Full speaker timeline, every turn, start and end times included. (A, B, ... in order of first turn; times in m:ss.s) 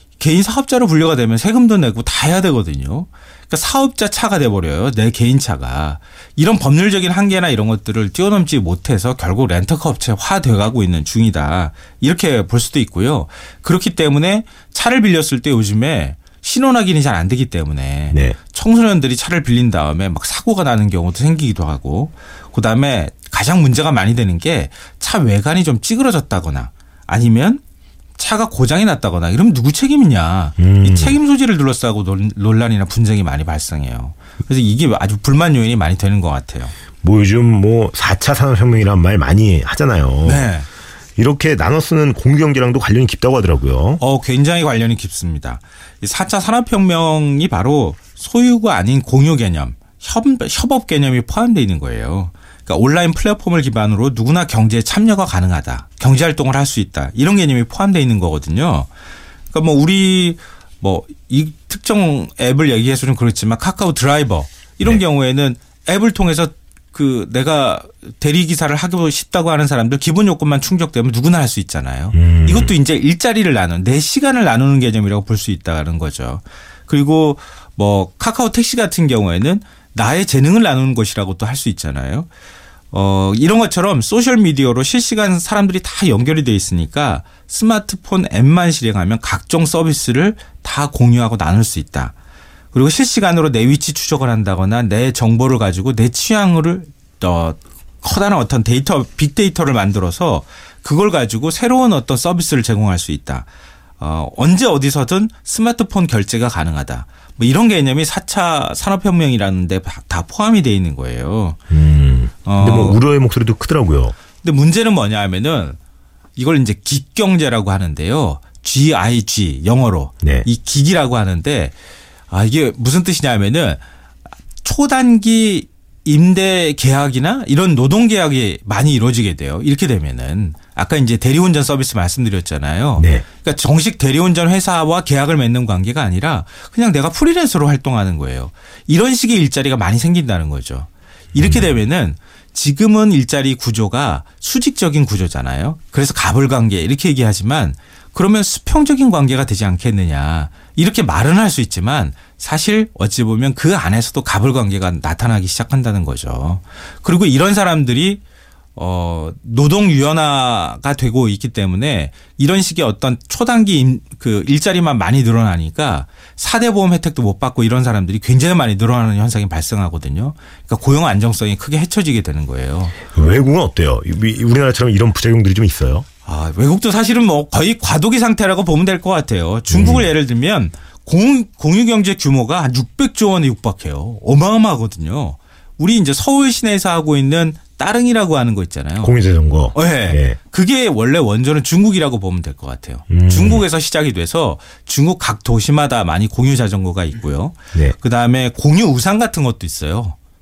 0:00.2-0:27.6 A
0:18.1-0:18.4 B
0:28.2-0:36.7 A
0:30.6-0:31.2 B
0:37.0-0:40.5 B
0:40.2-0:40.7 A
0:41.2-0:44.0 B
0:44.0-0:58.9 A
0:59.5-1:22.3 A
1:12.1-1:12.8 B
1:22.9-1:32.1 A
1:32.7-1:43.5 A
1:44.0-1:51.6 A
1:51.7-1:54.1 B
1:52.4-1:53.0 A
1:54.4-1:55.8 A
1:56.4-2:01.7 A
2:00.2-2:00.5 B
2:02.3-2:03.8 A
2:04.6-2:38.2 A
2:13.0-2:13.2 B
2:21.4-2:21.8 B
2:38.8-2:53.0 A
2:53.1-2:56.0 B
2:56.2-3:09.1 A
2:59.7-3:00.1 B
3:09.0-3:10.4 B
3:09.7-3:20.2 A
3:13.1-3:13.6 B